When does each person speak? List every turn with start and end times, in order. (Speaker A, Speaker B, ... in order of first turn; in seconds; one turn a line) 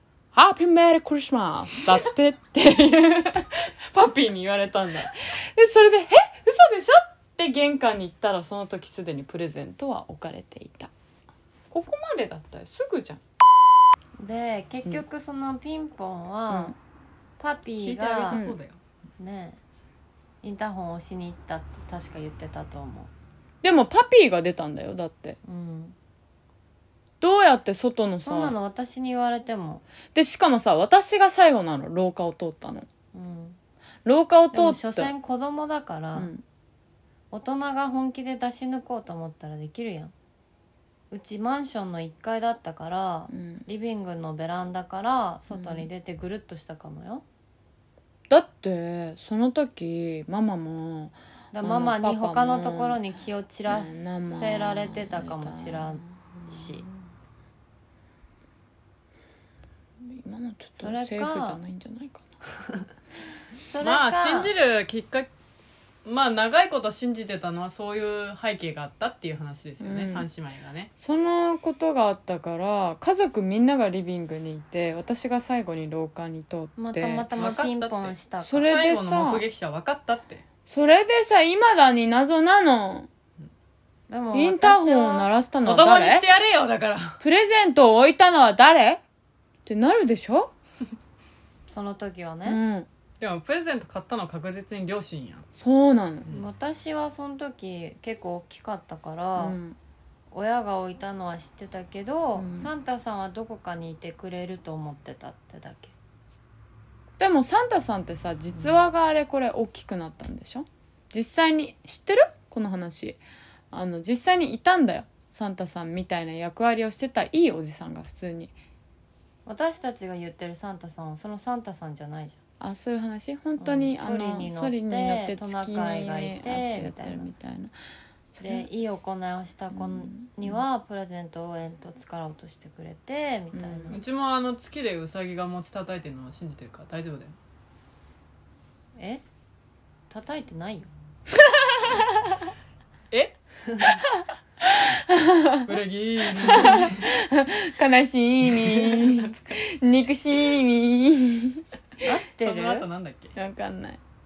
Speaker A: 0.3-10.9
Speaker A: 11.7-13.2
Speaker B: 14.2-16.8
Speaker A: 16.5-16.8
Speaker B: 17.4-18.4
Speaker C: 17.8-18.8
Speaker A: 18.3-18.6
Speaker B: 19.2-19.6
Speaker B: 20.4-23.1
Speaker A: 23.6-25.4
Speaker B: 25.4-25.9
Speaker A: 27.2-28.6
Speaker B: 28.2-29.8
Speaker A: 30.1-32.9
Speaker B: 33.1-33.6
Speaker A: 34.0-35.1
Speaker B: 34.5-36.3
Speaker A: 36.2-36.4
Speaker B: 37.3-40.1
Speaker B: 41.1-47.2
Speaker A: 43.3-43.6
Speaker A: 45.5-45.9
Speaker A: 48.3-53.0
Speaker B: 51.5-56.9
Speaker A: 53.7-57.0
Speaker A: 60.0-62.3
Speaker B: 60.8-61.6
Speaker B: 63.7-64.5
Speaker C: 63.8-65.3
Speaker C: 66.0-70.9
Speaker A: 69.8-70.3
Speaker A: 71.0-77.3
Speaker B: 76.8-78.7
Speaker C: 77.4-80.4
Speaker A: 78.4-79.4
Speaker A: 80.7-83.1
Speaker B: 84.1-85.3
Speaker A: 84.3-86.3
Speaker C: 85.6-87.2
Speaker A: 87.2-89.0
Speaker A: 89.7-90.5
Speaker B: 91.7-92.6
Speaker A: 92.5-92.9
Speaker C: 93.2-95.5
Speaker A: 95.6-96.4
Speaker B: 96.3-99.6
Speaker A: 99.4-99.8
Speaker B: 100.3-105.9
Speaker A: 102.4-102.7
Speaker A: 107.2-113.2
Speaker A: 113.7-118.5
Speaker B: 119.5-122.4
Speaker A: 122.6-127.7
Speaker B: 123.6-127.3
Speaker A: 128.3-128.7
Speaker B: 128.4-134.0
Speaker A: 129.7-130.6
Speaker A: 133.5-134.0
Speaker C: 133.9-137.3
Speaker B: 139.0-139.2
Speaker B: 140.1-140.9
Speaker C: 143.1-143.4
Speaker A: 144.6-145.7
Speaker C: 145.7-147.1
Speaker A: 146.4-151.6
Speaker C: 148.5-149.3
Speaker B: 152.0-152.9
Speaker C: 152.4-153.3
Speaker A: 153.4-154.0